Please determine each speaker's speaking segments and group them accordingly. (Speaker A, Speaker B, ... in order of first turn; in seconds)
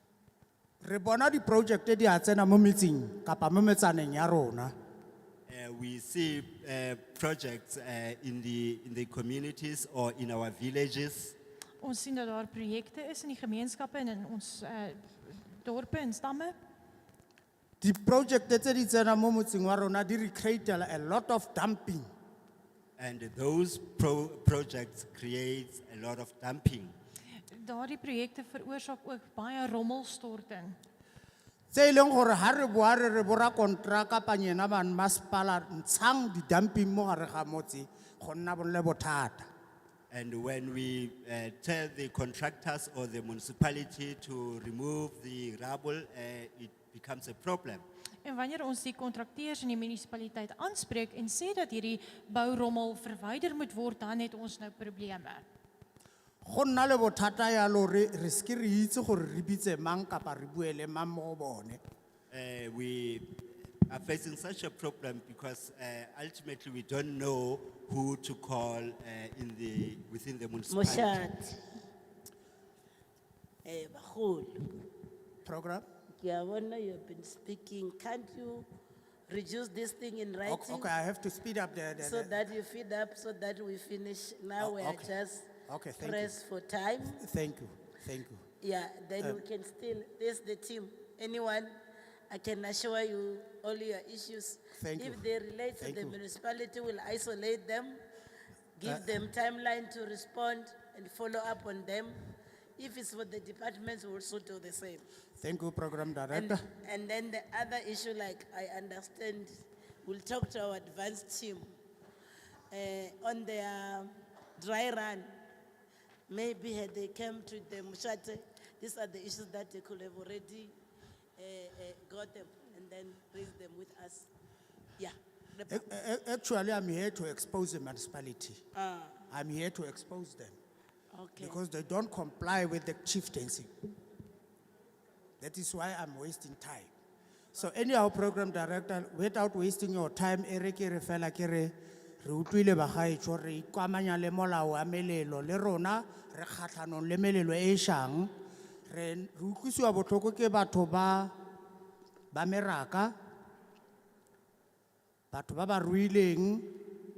Speaker A: 0.8-4.7, 17.8-22.1, 31.7-39.5, 56.4-61.8, 75.5-75.8, 80.5-82.4, 84.6-85.1, 85.7-86.3, 87.2-88.5, 94.8-95.2, 95.8-96.2, 105.4-106.6, 125.7-128.6, 129.3-130.6, 131.4-133.7, 135.4-136.9, 137.5-148.3, 148.9-151.3, 152.3-153.1, 155.3-156.8
Speaker B: 5.5-11.4, 23.0-26.9, 40.1-47.9, 62.3-71.3
Speaker C: 11.8-16.6, 27.5-30.8, 48.2-55.4
Speaker D: 70.7-71.6, 73.7-74.7, 76.2-78.7, 79.3-80.9, 82.0-87.2, 88.6-91.8, 92.3-98.0, 98.8-105.0, 106.3-111.7, 112.7-115.3, 116.3-120.7, 121.4-124.3, 125.0-125.8, 128.8-129.2, 131.1-131.6